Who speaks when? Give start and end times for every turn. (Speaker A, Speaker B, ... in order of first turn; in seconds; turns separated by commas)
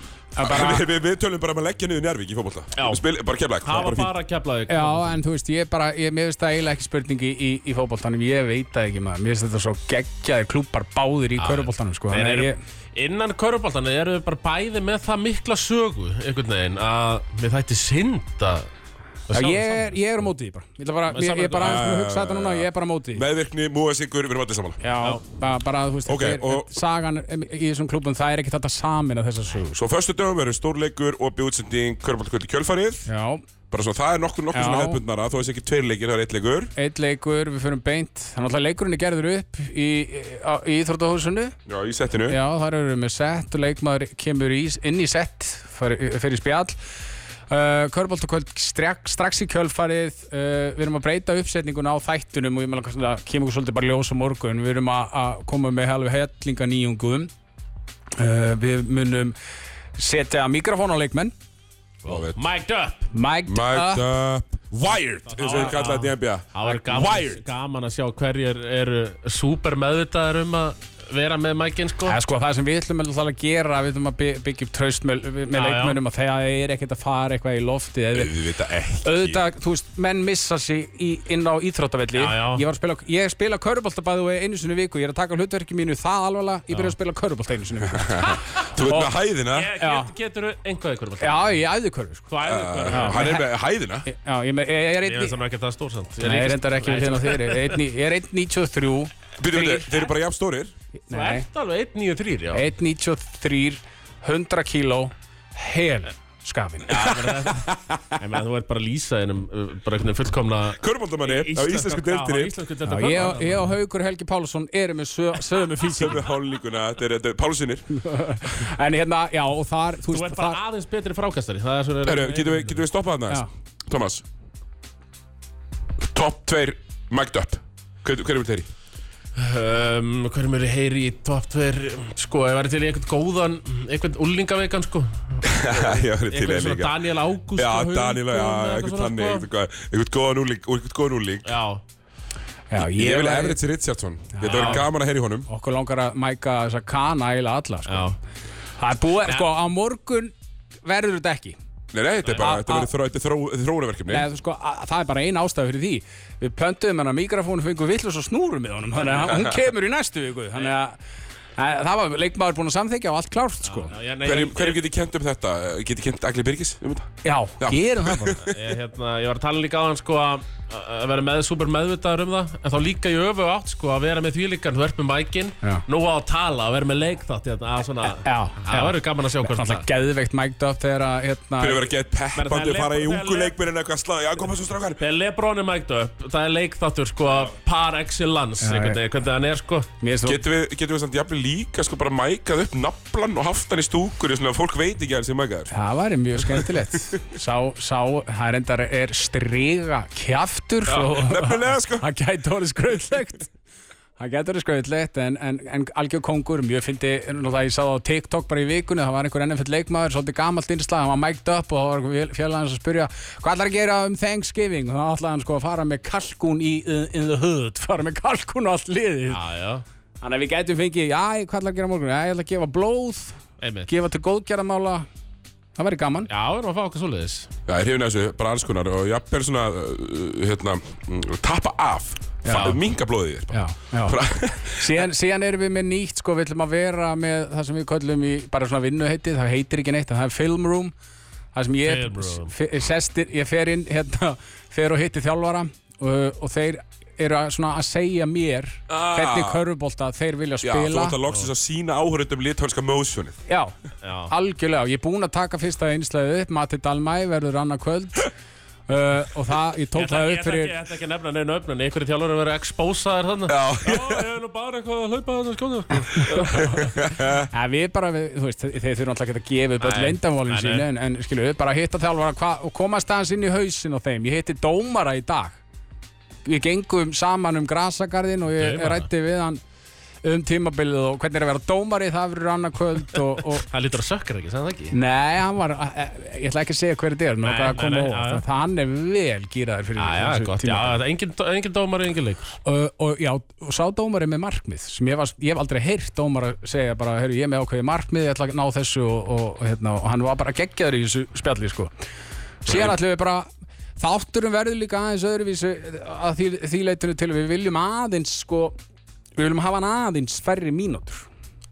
Speaker A: 0.4-0.8, Speaker B: 0.4-4.1, Speaker C: 2.8-3.0, Speaker C: 3.6-5.2, Speaker A: 4.7-12.6, Speaker C: 11.4-18.7, Speaker C: 19.3-20.0, Speaker A: 19.3-23.2, Speaker C: 21.1-21.9, Speaker B: 21.6-24.8, Speaker A: 24.8-29.8, Speaker B: 26.1-26.7, Speaker B: 29.8-33.1, Speaker A: 33.1-33.4, Speaker B: 33.7-36.7, Speaker A: 34.5-35.0, Speaker A: 36.8-41.5, Speaker B: 41.7-42.4, Speaker A: 42.3-46.8, Speaker A: 47.5-57.3, Speaker A: 58.1-59.4, Speaker A: 60.0-61.3, Speaker C: 62.0-63.1, Speaker B: 62.1-62.4, Speaker A: 63.1-64.0, Speaker B: 63.5-67.4, Speaker C: 65.3-72.2, Speaker A: 72.1-78.4, Speaker C: 75.5-76.0, Speaker B: 78.1-79.4, Speaker A: 79.0-89.1, Speaker C: 82.1-82.6, Speaker B: 88.6-89.7, Speaker C: 89.5-91.6, Speaker A: 89.8-90.1, Speaker A: 91.2-92.3, Speaker C: 92.3-93.4, Speaker B: 92.4-94.1, Speaker A: 92.9-93.5, Speaker A: 94.0-95.4, Speaker C: 95.0-97.8, Speaker A: 96.2-100.1, Speaker B: 99.4-100.7, Speaker A: 101.1-101.4, Speaker C: 101.1-102.7, Speaker A: 102.5-107.2, Speaker C: 106.9-113.7, Speaker B: 110.8-112.5, Speaker A: 112.9-116.2, Speaker B: 115.8-117.9, Speaker A: 117.9-120.6, Speaker C: 120.1-122.8, Speaker B: 122.0-124.2, Speaker B: 126.0-128.7, Speaker C: 129.4-139.5, Speaker B: 135.4-137.0, Speaker B: 137.5-141.6, Speaker C: 141.4-141.8, Speaker A: 142.7-143.6, Speaker B: 142.8-145.5, Speaker A: 144.3-144.8, Speaker C: 144.5-144.8, Speaker A: 145.5-148.1, Speaker C: 147.9-148.2, Speaker A: 148.8-150.3, Speaker A: 150.8-151.6, Speaker B: 151.9-154.3, Speaker A: 152.3-152.9, Speaker A: 154.1-161.0, Speaker B: 159.3-159.5, Speaker A: 161.6-163.9, Speaker C: 163.6-164.8, Speaker B: 164.2-168.5, Speaker A: 167.2-168.5, Speaker C: 168.5-179.8, Speaker A: 178.1-181.9, Speaker B: 181.6-185.0, Speaker C: 182.3-183.6, Speaker C: 185.0-189.9, Speaker A: 188.6-189.0, Speaker A: 190.0-190.4, Speaker B: 190.2-195.7, Speaker A: 195.7-203.5, Speaker B: 196.4-196.7, Speaker B: 200.9-202.1, Speaker A: 204.2-219.4, Speaker C: 219.3-219.8, Speaker A: 220.2-223.4, Speaker C: 223.6-223.9, Speaker A: 223.9-225.1, Speaker A: 225.8-226.3, Speaker C: 226.3-227.5, Speaker B: 227.7-235.1, Speaker A: 232.4-232.8, Speaker A: 233.5-234.2, Speaker A: 234.8-240.9, Speaker A: 241.5-251.2, Speaker C: 241.8-242.5, Speaker B: 248.9-249.7, Speaker B: 250.6-253.4, Speaker A: 253.5-253.7, Speaker C: 254.0-254.3, Speaker A: 254.3-258.3, Speaker A: 258.9-260.8, Speaker C: 259.9-266.8, Speaker B: 263.5-264.2, Speaker B: 266.6-267.5, Speaker A: 267.5-275.6, Speaker C: 269.8-270.9, Speaker A: 276.4-279.6, Speaker C: 278.5-279.1, Speaker A: 280.2-283.6, Speaker C: 283.6-285.0, Speaker A: 284.9-291.0, Speaker C: 287.4-288.4, Speaker C: 290.0-292.6, Speaker A: 292.6-301.9, Speaker A: 302.6-308.8, Speaker A: 309.4-311.2